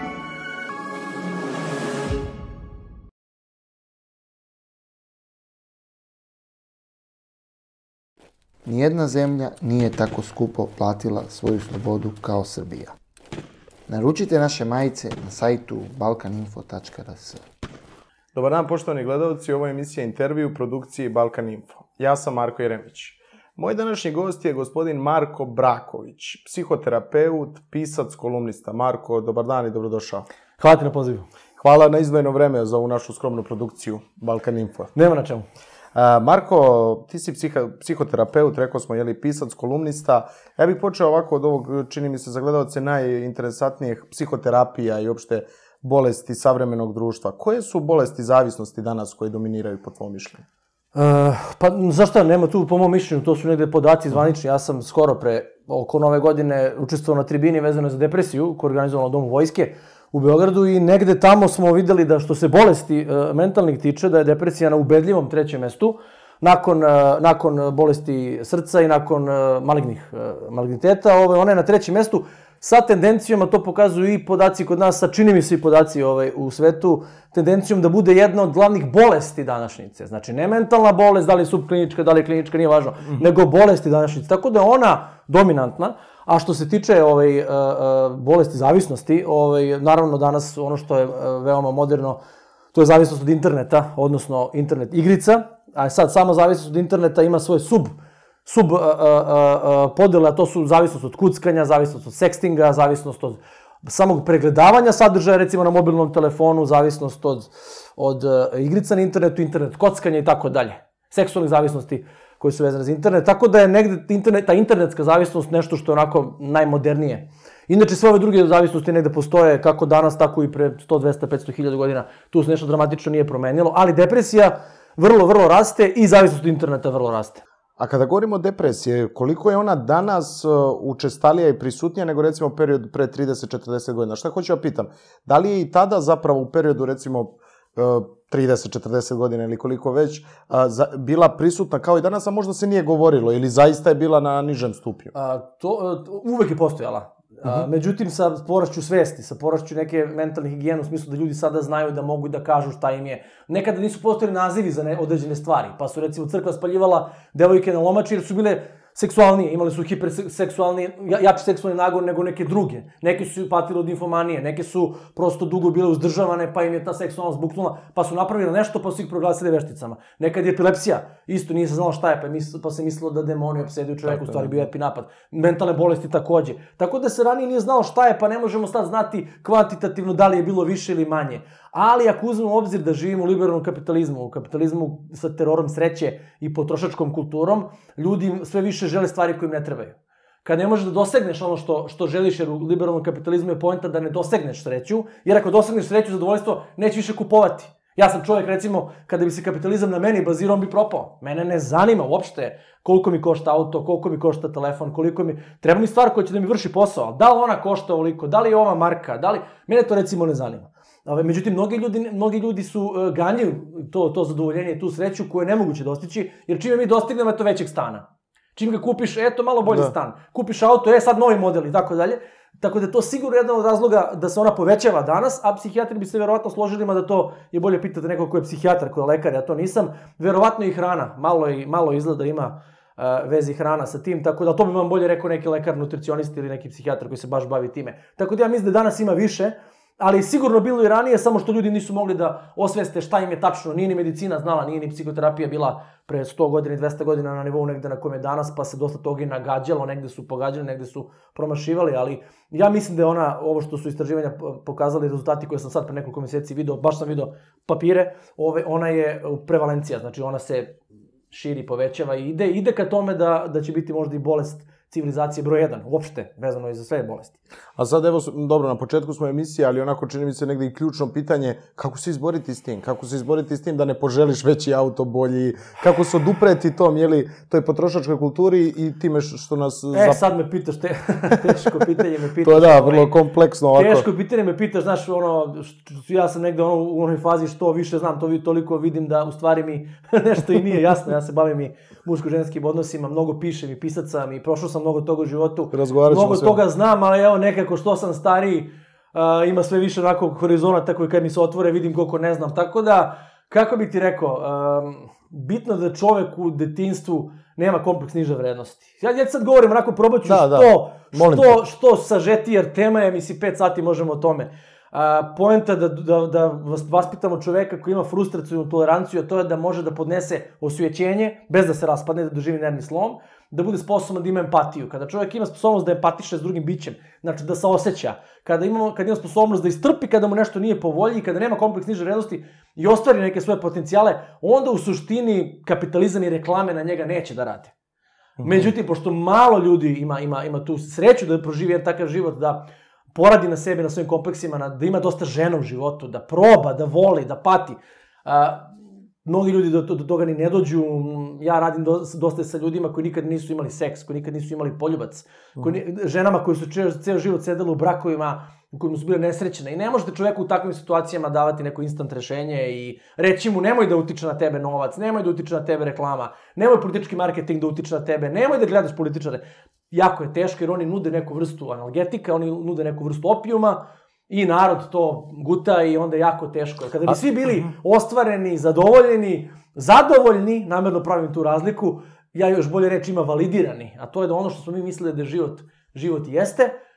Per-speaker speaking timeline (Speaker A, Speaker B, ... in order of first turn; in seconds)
Speaker A: 8.6-12.9, 13.9-17.4
Speaker B: 18.3-30.3, 31.6-34.9, 35.9-50.4, 127.8-145.1, 174.1-174.6, 267.8-280.2, 282.4-284.1, 295.7-296.6, 310.2-311.6, 338.4-338.7
Speaker C: 30.6-31.3, 35.0-35.5, 51.0-92.2, 92.7-127.4, 145.2-260.8, 261.3-267.4, 279.9-283.1, 283.7-337.7, 338.4-348.7, 349.2-386.7